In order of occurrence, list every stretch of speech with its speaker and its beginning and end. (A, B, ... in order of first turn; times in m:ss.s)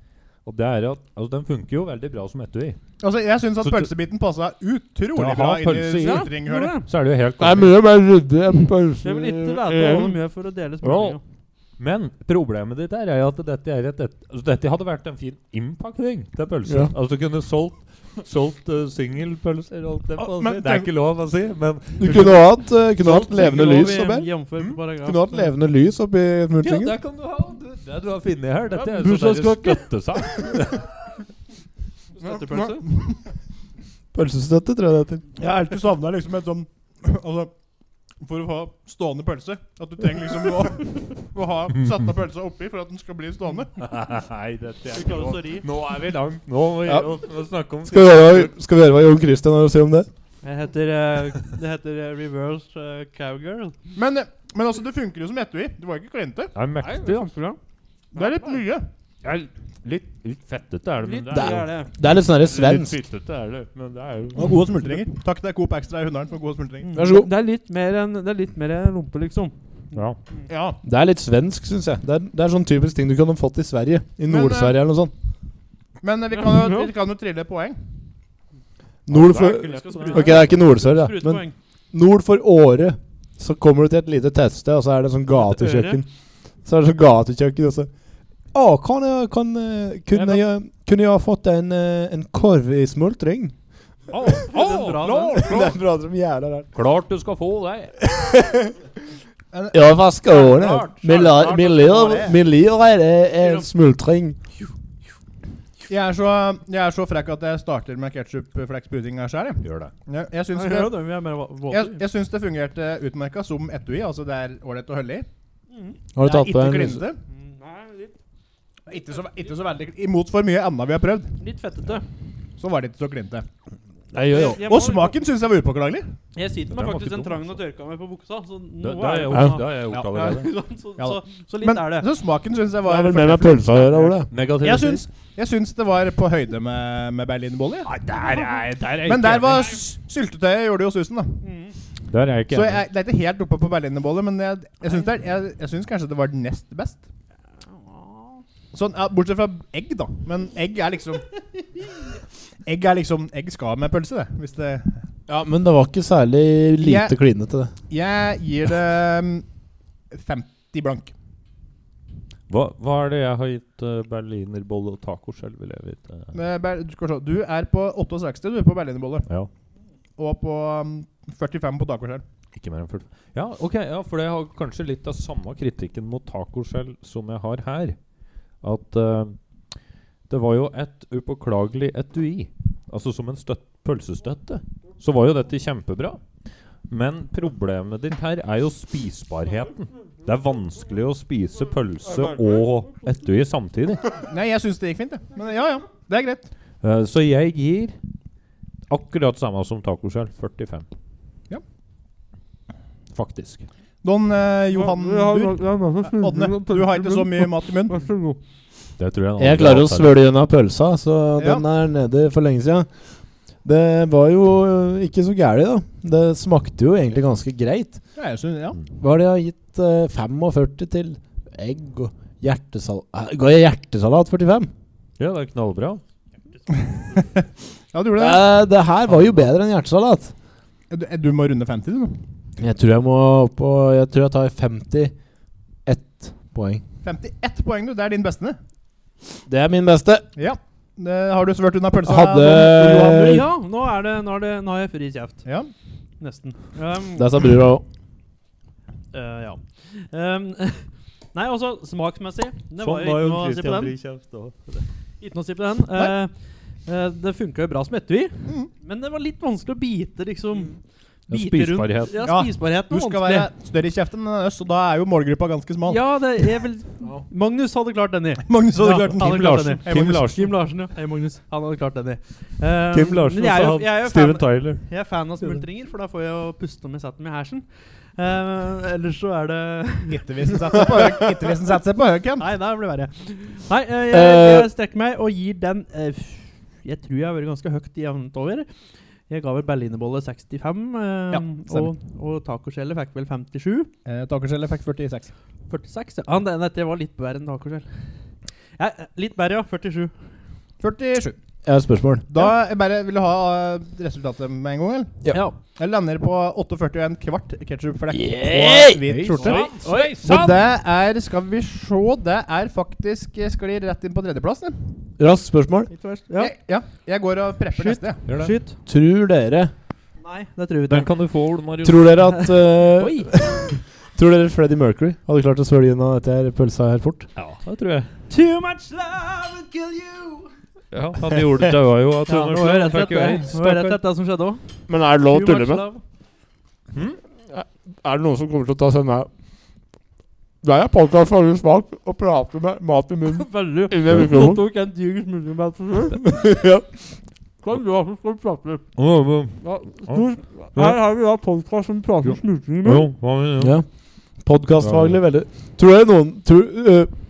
0:00.4-0:02.8 A
0:03.0-0:06.8 B
0:03.6-0:03.9 A
0:05.1-0:06.3 A
0:06.0-0:06.9 C
0:06.8-0:07.7 A
0:07.4-0:10.2 D
0:09.0-0:11.2 C
0:10.8-0:11.2 A
0:11.8-0:22.4 A
0:16.7-0:16.9 D
0:20.2-0:20.9 B
0:22.0-0:24.3 D
0:23.0-0:25.5 C
0:25.0-0:27.0 D
0:26.6-0:30.9 A
0:28.7-0:29.9 C
0:32.2-0:32.8 C
0:32.2-0:33.2 B
0:34.1-0:35.3 D
0:35.4-0:37.5 B
0:38.2-0:43.7 B
0:43.8-0:48.5 A
0:44.9-0:45.6 C
0:47.8-0:50.1 D
0:50.4-0:53.7 C
0:54.0-0:56.5 B
0:56.5-0:57.3 A
0:56.8-0:57.6 C
0:58.1-0:58.9 B
0:58.2-0:58.4 C
0:59.2-1:01.7 A
1:01.0-1:01.9 C
1:01.3-1:03.0 D
1:02.4-1:04.7 A
1:04.4-1:06.9 B
1:06.8-1:09.6 C
1:07.0-1:07.3 D
1:10.5-1:10.8 B
1:10.8-1:15.1 D
1:14.3-1:14.8 B
1:16.0-1:17.8 B
1:16.3-1:16.9 C
1:19.1-1:26.1 D
1:19.1-1:20.5 A
1:19.7-1:21.5 C
1:25.4-1:26.0 C
1:26.6-1:27.9 D
1:28.5-1:33.5 D
1:30.1-1:30.4 A
1:34.1-1:35.8 A
1:34.4-1:35.5 C
1:35.4-1:36.7 D
1:36.7-1:37.9 A
1:38.0-1:38.7 D
1:39.5-1:40.0 B
1:39.7-1:44.4 D
1:40.3-1:42.4 C
1:43.4-1:43.7 C
1:45.9-1:50.9 B
1:49.6-1:49.9 A
1:50.5-1:52.0 C
1:51.7-1:55.3 B
1:55.7-1:56.0 C
1:56.1-1:57.0 D
1:56.2-1:57.2 B
1:57.3-1:58.1 C
1:58.9-2:01.3 B
2:01.4-2:02.0 C
2:02.6-2:03.4 B
2:04.1-2:04.7 D
2:04.2-2:05.2 C
2:04.6-2:06.1 B
2:06.3-2:12.1 C
2:06.7-2:07.4 A
2:08.8-2:10.5 A
2:09.3-2:09.6 D
2:09.9-2:10.4 B
2:11.0-2:17.9 B
2:12.8-2:14.3 D
2:14.3-2:15.0 A
2:17.8-2:19.8 A
2:18.2-2:18.7 C
2:19.0-2:21.4 B
2:21.4-2:21.7 C
2:22.1-2:22.8 A
2:22.5-2:27.0 B
2:27.9-2:28.4 C
2:28.7-2:31.2 B
2:32.7-2:35.0 B
2:35.3-2:37.7 D
2:36.8-2:37.1 B
2:37.9-2:39.4 B
2:40.1-2:41.1 B
2:42.5-2:46.3 A
2:46.3-2:49.3 B
2:50.2-2:52.2 B
2:52.6-2:58.0 A
2:58.6-2:59.4 A
3:00.3-3:06.2 A
3:06.9-3:14.0 A
3:14.2-3:16.5 B
3:16.8-3:18.0 A
3:18.9-3:20.9 A
3:23.1-3:23.7 A
3:24.0-3:28.0 B
3:24.8-3:27.3 C
3:27.9-3:28.4 C
3:29.0-3:30.1 A
3:29.4-3:32.9 D
3:31.4-3:31.6 B
3:33.6-3:38.0 D
3:38.2-3:38.8 B
3:38.9-3:44.7 D
3:45.2-3:46.0 A
3:46.8-3:48.4 B
3:48.2-3:50.3 D
3:50.9-3:52.2 B
3:52.6-3:55.1 D
3:55.9-3:56.8 D
3:57.0-3:58.6 B
3:59.5-4:00.3 D
4:00.4-4:02.7 B
4:02.0-4:03.5 D
4:02.5-4:05.4 C
4:05.4-4:05.7 B
4:06.2-4:07.3 C
4:07.1-4:07.8 D
4:09.1-4:13.9 C
4:12.8-4:14.8 A
4:15.2-4:16.3 C
4:16.9-4:20.8 C
4:21.3-4:22.2 A
4:21.3-4:23.5 C
4:22.2-4:26.0 B
4:25.9-4:41.1 C
4:28.4-4:30.3 B
4:29.2-4:30.5 A
4:32.9-4:34.8 A
4:40.1-4:42.4 B
4:42.4-4:48.7 C
4:44.1-4:44.7 D
4:49.3-4:53.9 C
4:51.3-4:51.9 B
4:54.0-4:55.3 B
4:55.7-4:57.9 C
4:58.8-5:00.1 C
5:00.8-5:01.4 B
5:01.6-5:02.3 D
5:02.3-5:05.2 B
5:05.8-5:15.0 B
5:08.1-5:09.3 D
5:09.1-5:10.6 A
5:09.4-5:10.2 C
5:15.2-5:15.9 D
5:15.9-5:16.5 C
5:16.4-5:18.2 B
5:17.8-5:18.7 C
5:18.3-5:18.5 A
5:18.9-5:19.7 D
5:20.2-5:21.1 C
5:20.9-5:22.2 A
5:21.8-5:27.3 D
5:22.3-5:23.8 C
5:27.4-5:28.1 A
5:28.3-5:30.5 C
5:30.9-5:34.0 A
5:32.3-5:34.6 C
5:34.9-5:35.8 D
5:35.2-5:36.0 C
5:36.9-5:37.2 A
5:37.5-5:39.3 D
5:40.6-5:44.6 D
5:43.3-5:46.3 C
5:46.2-5:46.9 D
5:47.6-5:48.8 C
5:49.0-5:51.0 A
5:49.6-5:53.1 C
5:52.2-5:53.8 A
5:53.6-5:53.9 D
5:54.4-5:57.1 D
5:54.8-5:55.2 A